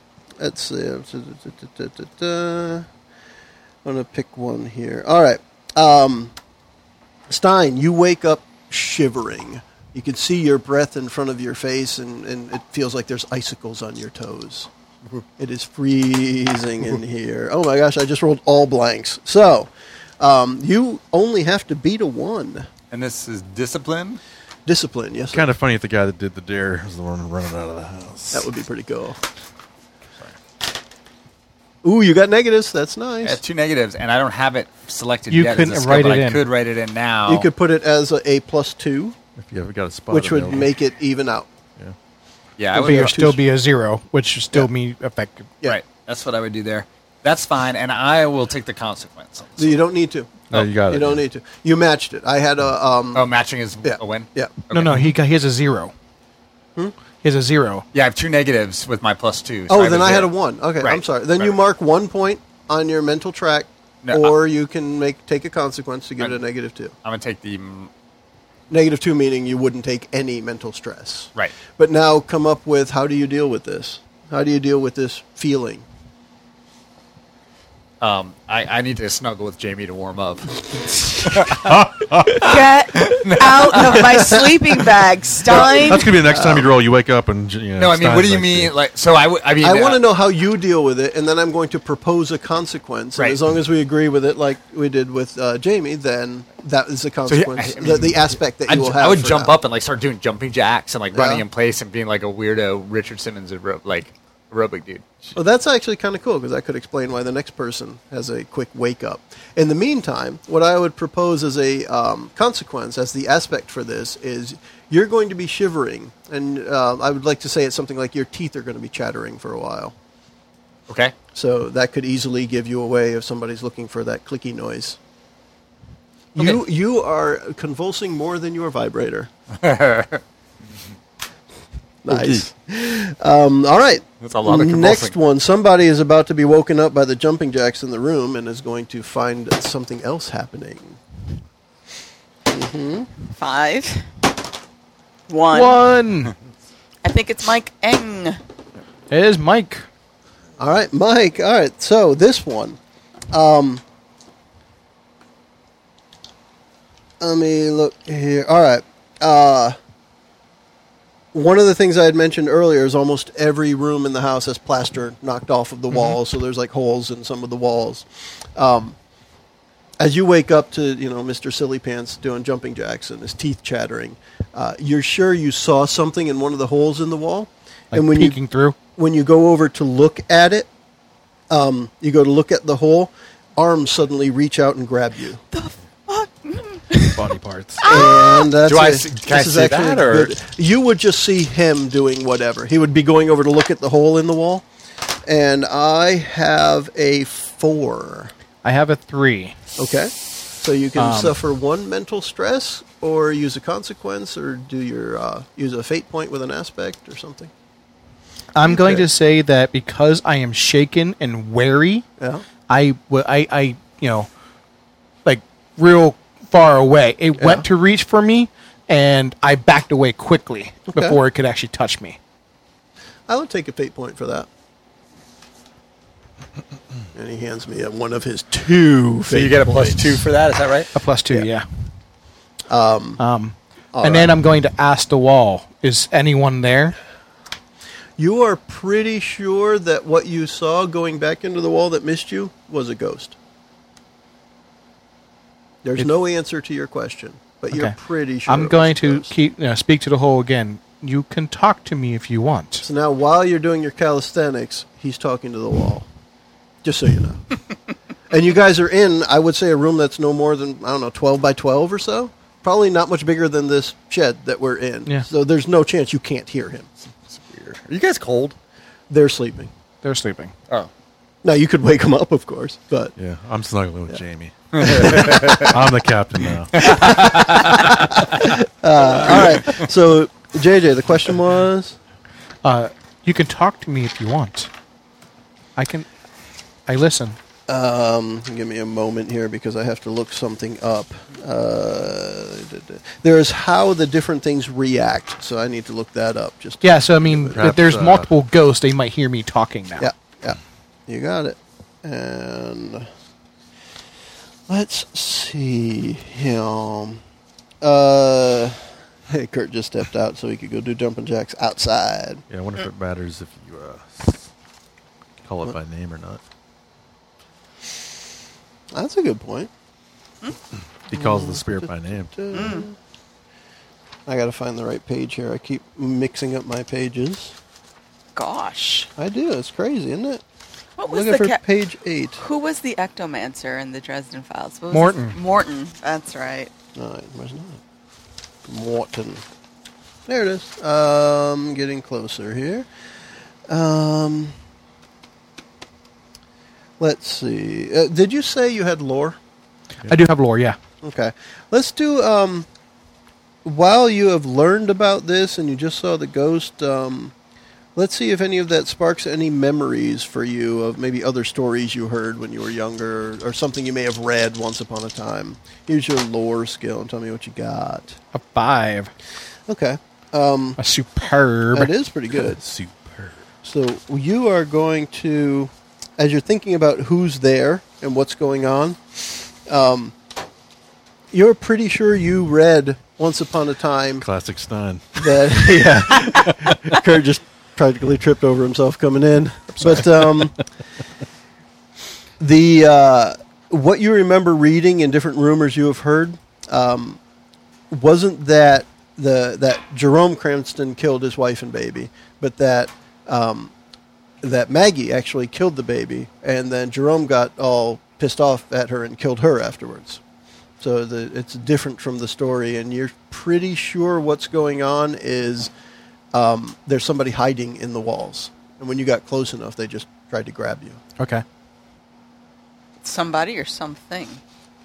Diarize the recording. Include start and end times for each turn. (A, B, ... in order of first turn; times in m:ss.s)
0:00.4-0:02.8 A
0:03.8-0:06.3 A
0:07.3-0:14.7 A
0:15.4-0:19.7 A
0:20.2-0:22.7 A
0:22.9-0:24.2 B
0:24.6-0:25.4 A
0:25.3-0:28.5 C
0:28.3-0:29.2 A
0:31.8-0:33.4 A
0:33.2-0:37.5 B
0:35.3-0:36.4 D
0:37.2-0:39.2 A
0:39.4-0:40.7 C
0:40.1-0:41.5 A
0:42.6-0:43.2 B
0:42.7-0:43.4 A
0:42.7-0:45.5 D
0:45.6-0:49.8 B
0:49.6-0:53.2 A
0:50.5-0:51.2 C
0:53.1-0:55.1 B
0:53.8-0:54.5 A
0:54.7-0:55.9 D
0:57.2-0:57.8 D
0:57.9-1:01.6 B
0:59.7-1:06.9 A
1:04.0-1:04.4 B
1:07.0-1:07.9 B
1:08.7-1:15.8 A
1:18.0-1:21.8 B
1:21.5-1:22.6 C
1:22.3-1:26.1 E
1:23.0-1:23.9 B
1:24.0-1:24.5 A
1:25.5-1:28.7 C
1:25.5-1:26.7 A
1:27.8-1:30.0 B
1:29.6-1:39.6 A
1:37.2-1:45.3 B
1:41.1-1:41.4 A
1:45.3-1:59.9 A
2:00.9-2:01.1 B
2:01.3-2:05.0 A
2:06.3-2:09.3 A
2:09.6-2:10.2 B
2:12.0-2:21.0 A
2:12.1-2:12.4 B
2:14.2-2:15.1 B
2:22.5-2:23.1 A
2:23.3-2:24.1 E
2:25.3-2:25.8 E
2:25.5-2:26.3 D
2:27.0-2:28.4 E
2:29.1-2:29.8 D
2:30.6-2:32.8 A
2:33.3-2:33.8 A
2:37.2-2:39.8 A
2:41.3-2:49.0 A
2:50.0-2:58.4 A
2:57.9-2:58.8 D
2:58.9-3:00.7 A
3:01.5-3:05.4 A
3:05.5-3:07.3 E
3:07.1-3:07.8 D
3:07.8-3:08.5 E
3:07.8-3:14.6 A
3:08.6-3:10.4 B
3:15.2-3:18.3 A
3:18.6-3:19.5 D
3:19.8-3:27.5 A
3:21.0-3:21.4 D
3:28.5-3:32.0 D
3:28.6-3:29.0 A
3:32.2-3:32.4 A
3:32.7-3:34.3 D
3:35.2-3:42.2 D
3:37.4-3:37.6 A
3:40.9-3:41.2 A
3:43.3-3:44.5 A
3:47.1-3:50.3 A
3:49.2-3:50.9 B
3:50.9-3:51.6 D
3:52.7-3:53.2 A
3:53.2-3:57.0 D
3:53.9-3:54.4 A
3:58.2-4:03.3 A
4:05.8-4:09.3 A
4:07.7-4:12.8 D
4:12.8-4:16.0 A
4:16.8-4:17.5 A
4:18.3-4:26.9 A
4:27.3-4:28.6 B
4:29.1-4:29.7 A
4:30.0-4:30.5 D
4:31.4-4:33.1 A
4:33.2-4:37.0 C
4:34.7-4:35.7 B
4:34.9-4:35.6 A
4:36.7-4:38.4 B
4:36.8-4:42.0 A
4:39.2-4:39.9 B
4:42.6-4:44.7 D
4:45.8-4:46.1 D
4:46.9-4:47.4 D
4:47.7-4:57.7 A
4:56.8-5:00.1 D
4:57.5-4:58.3 C
5:00.0-5:03.1 A
5:04.7-5:07.2 A
5:07.8-5:08.8 A
5:09.3-5:12.4 A
5:12.5-5:14.5 C
5:15.4-5:16.4 C
5:18.9-5:19.7 A
5:21.1-5:22.7 C
5:21.1-5:22.9 A
5:22.5-5:22.9 E
5:24.2-5:27.5 A
5:28.4-5:29.1 E
5:29.2-5:30.4 A
5:31.0-5:31.6 E
5:31.1-5:32.4 A
5:32.4-5:36.7 E
5:34.9-5:35.4 D
5:36.9-5:37.8 A
5:38.6-5:39.4 A
5:40.3-5:42.9 A
5:43.7-5:44.5 A
5:47.0-5:49.4 A
5:50.1-5:50.8 D
5:51.0-5:52.6 A
5:53.6-5:57.3 A
5:57.9-6:08.2 A
6:08.3-6:09.1 D
6:09.7-6:10.8 A
6:10.8-6:11.9 D
6:11.7-6:12.6 A
6:12.4-6:13.4 C
6:13.6-6:20.1 A
6:21.3-6:24.2 A
6:24.2-6:26.7 C
6:25.2-6:30.6 A
6:32.4-6:37.2 A
6:37.9-6:43.7 A
6:44.4-6:50.2 A
6:50.8-6:55.7 A
6:56.3-7:01.0 A
7:01.2-7:01.4 D
7:03.0-7:04.4 E